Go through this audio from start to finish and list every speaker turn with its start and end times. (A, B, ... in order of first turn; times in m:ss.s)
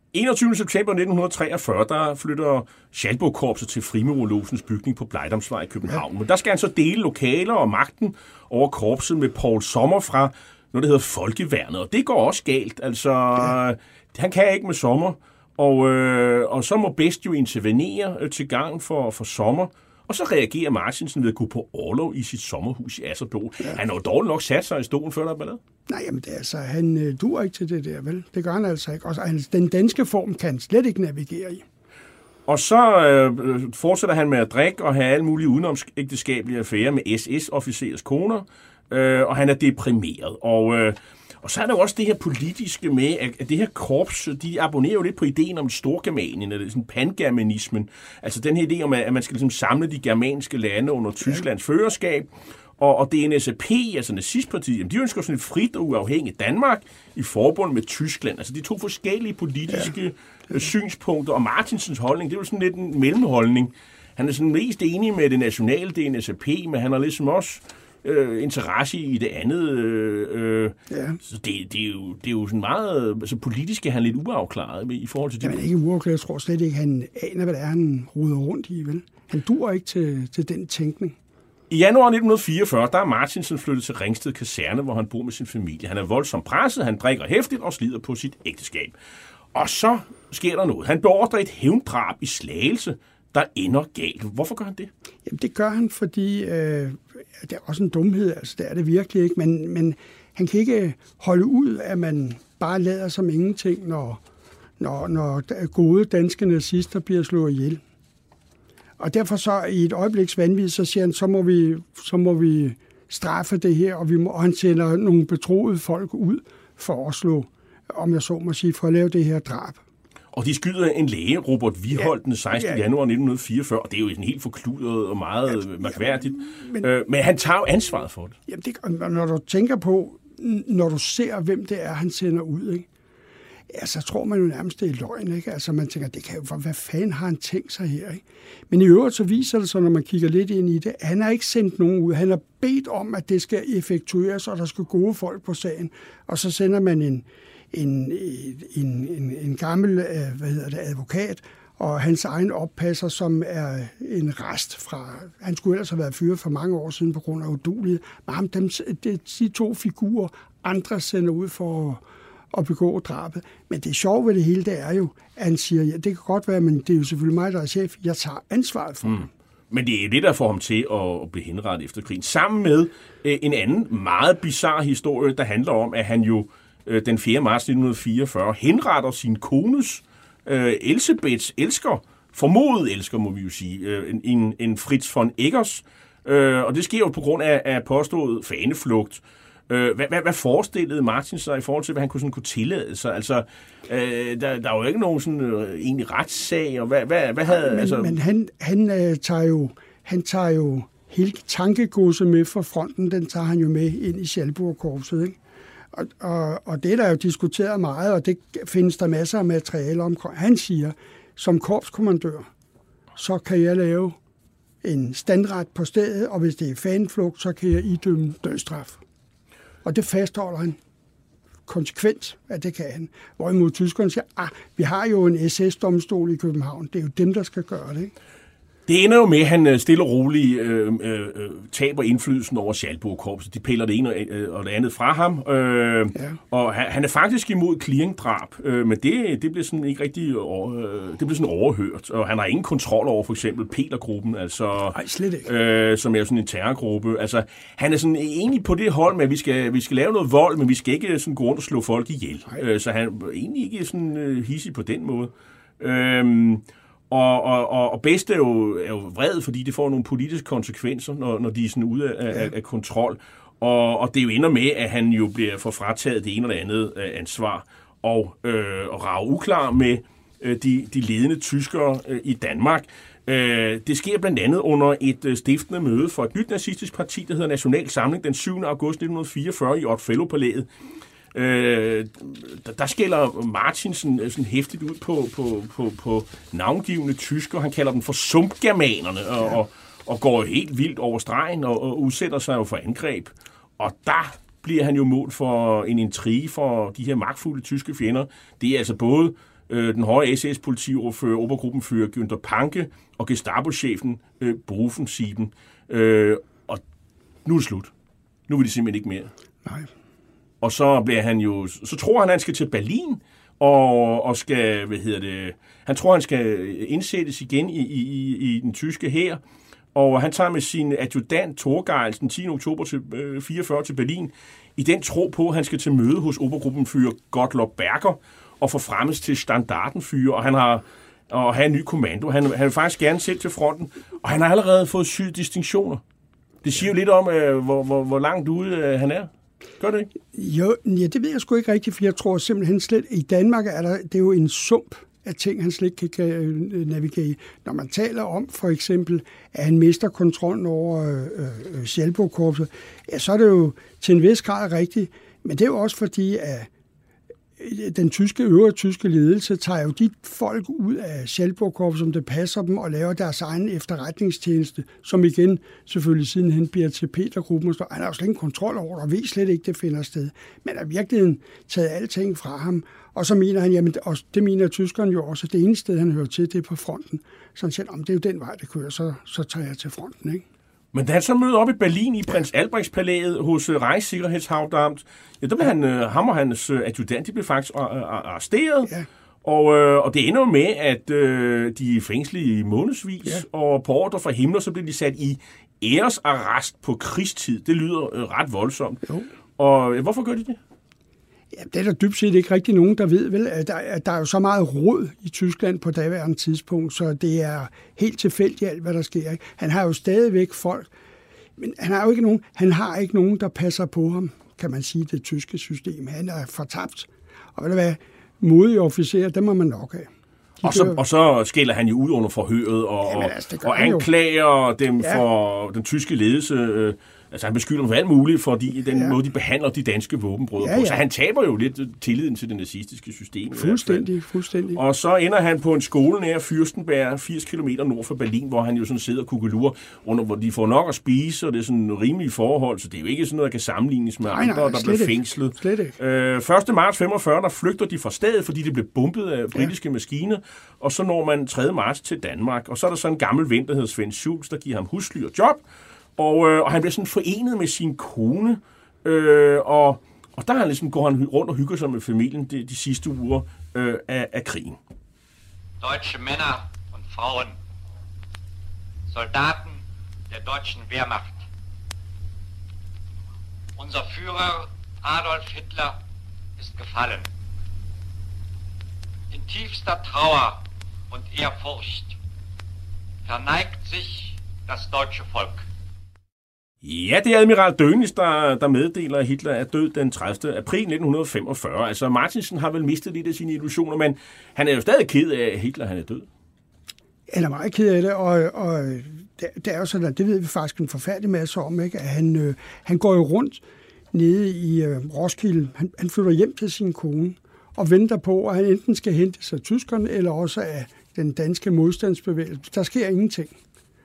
0:00.1-0:25.6 A
0:25.9-0:31.6 B
0:32.5-1:15.6 A
1:10.9-1:11.2 B
1:15.4-1:21.2 B
1:21.7-1:29.0 A
1:29.5-1:34.9 A
1:35.3-1:44.2 B
1:44.8-1:47.8 B
1:49.0-1:59.8 B
2:00.3-2:08.4 A
2:02.0-2:02.8 B
2:05.8-2:06.9 B
2:08.5-2:12.9 B
2:13.7-2:42.0 B
2:42.5-2:49.3 B
2:49.0-3:18.2 A
3:17.4-3:25.4 B
3:25.9-3:32.5 B
3:33.2-3:34.2 B
3:34.8-3:39.0 B
3:39.8-3:40.8 B
3:41.7-3:48.1 B
3:48.9-4:40.7 A
4:04.9-4:05.5 B
4:41.3-5:06.8 A
5:07.4-5:07.9 A
5:08.5-5:09.3 A
5:10.6-5:19.4 A
5:19.9-5:36.0 A
5:36.6-5:40.1 A
5:40.3-5:56.7 B
5:57.6-6:20.4 B
6:20.9-6:28.9 A
6:29.4-6:39.1 A
6:39.6-6:40.6 A
6:41.5-6:50.9 B
6:51.6-7:00.1 B
7:00.6-7:01.0 B
7:00.6-7:14.1 A
7:03.0-7:04.1 B
7:10.6-7:11.0 B
7:13.5-7:14.8 B
7:14.7-7:35.6 A
7:24.3-7:26.0 B
7:36.2-7:44.8 A
7:45.8-7:47.6 C
7:49.1-7:51.5 C
7:53.8-7:56.0 C
7:56.6-7:57.3 C
7:59.3-8:02.2 C
8:03.2-8:05.7 C
8:06.8-8:16.3 A
8:17.3-8:23.6 B
8:24.1-8:33.6 B